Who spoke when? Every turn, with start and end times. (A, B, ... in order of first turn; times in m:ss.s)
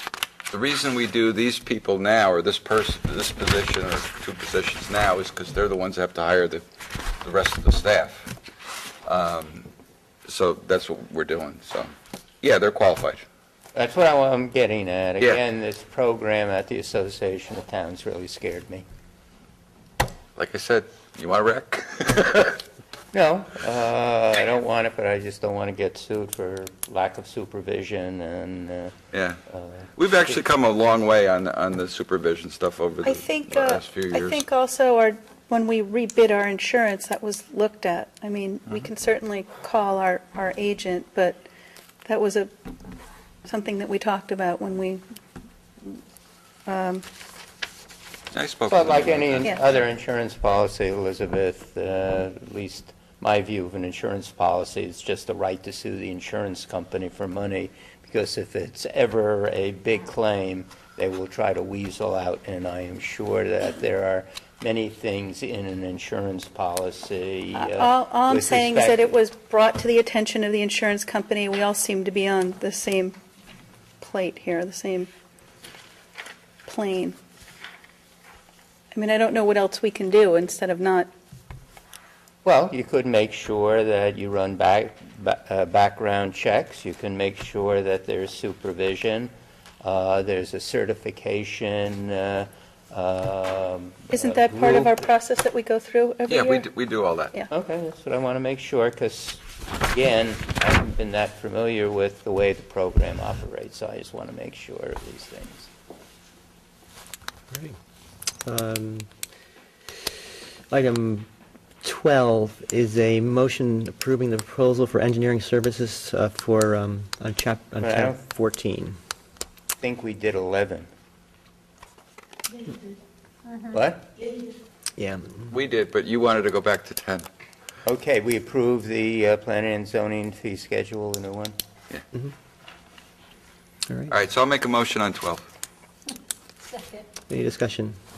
0:00.5-0:06.6 A
0:07.2-0:08.3 A
0:09.0-0:09.7 A
0:10.3-0:13.2 A
0:13.7-0:18.8 B
0:20.4-0:22.6 A
0:23.1-0:28.9 B
0:29.1-0:29.4 A
0:29.9-0:34.4 A
0:33.0-0:41.4 C
0:42.0-0:42.5 C
0:43.4-0:45.0 C
0:46.6-0:47.0 C
0:48.3-0:49.5 A
0:48.7-1:09.1 B
1:07.6-1:13.2 C
1:14.0-1:15.1 C
1:16.6-1:17.2 C
1:18.9-1:21.1 C
1:22.4-1:29.3 B
1:29.8-1:35.0 B
1:34.1-1:36.6 C
1:36.3-1:37.3 A
1:37.5-1:45.7 B
1:47.5-1:47.8 D
1:48.4-1:49.1 D
1:50.7-1:51.3 D
1:51.8-1:59.0 D
1:57.8-1:58.2 B
1:59.8-2:00.9 B
2:03.7-2:04.2 B
2:05.0-2:05.5 D
2:05.5-2:07.3 A
2:07.8-2:11.6 B
2:14.1-2:15.4 A
2:17.3-2:18.0 D